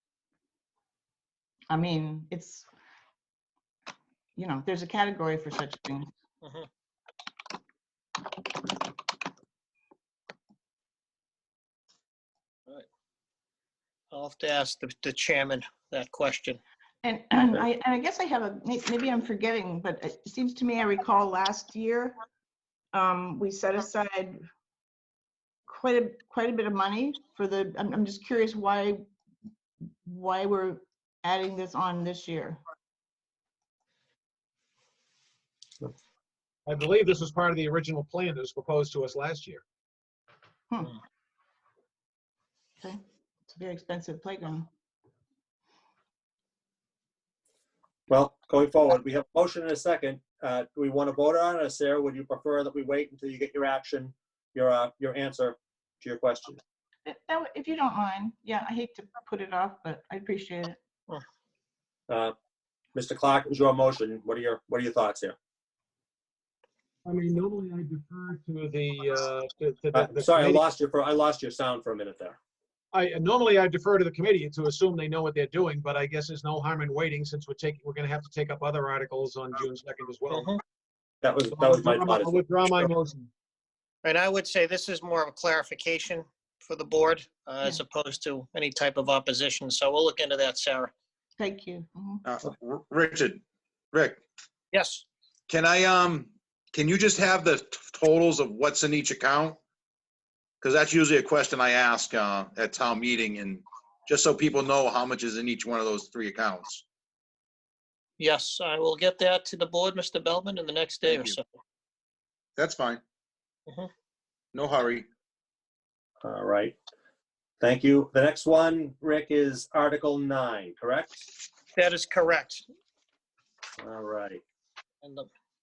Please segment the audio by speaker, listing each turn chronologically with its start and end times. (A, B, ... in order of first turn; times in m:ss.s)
0:01.7-0:02.7 A
0:04.4-0:06.1 A
0:14.1-0:16.6 B
0:17.0-0:22.1 A
0:22.9-0:24.4 A
0:25.7-0:29.0 A
0:30.0-0:32.6 A
0:36.6-0:39.6 C
0:40.7-0:41.0 A
0:42.8-0:44.7 A
0:48.1-0:56.6 D
0:57.0-1:00.8 A
1:02.1-1:02.3 D
1:02.9-1:05.4 D
1:07.0-1:10.6 C
1:09.9-1:12.4 D
1:12.9-1:20.5 C
1:20.3-1:20.6 B
1:21.2-1:22.9 D
1:21.5-1:23.3 C
1:24.0-1:30.9 B
1:31.4-1:32.2 A
1:32.2-1:33.4 E
1:33.9-1:34.2 E
1:34.7-1:35.0 B
1:35.5-1:39.6 E
1:40.6-1:46.8 E
1:48.2-1:51.4 B
1:51.0-1:51.3 E
1:52.6-1:53.0 E
1:54.5-1:55.1 E
1:56.2-1:56.8 D
1:57.6-2:01.3 D
2:01.8-2:02.6 B
2:03.8-2:04.4 D
2:05.0-2:05.3 B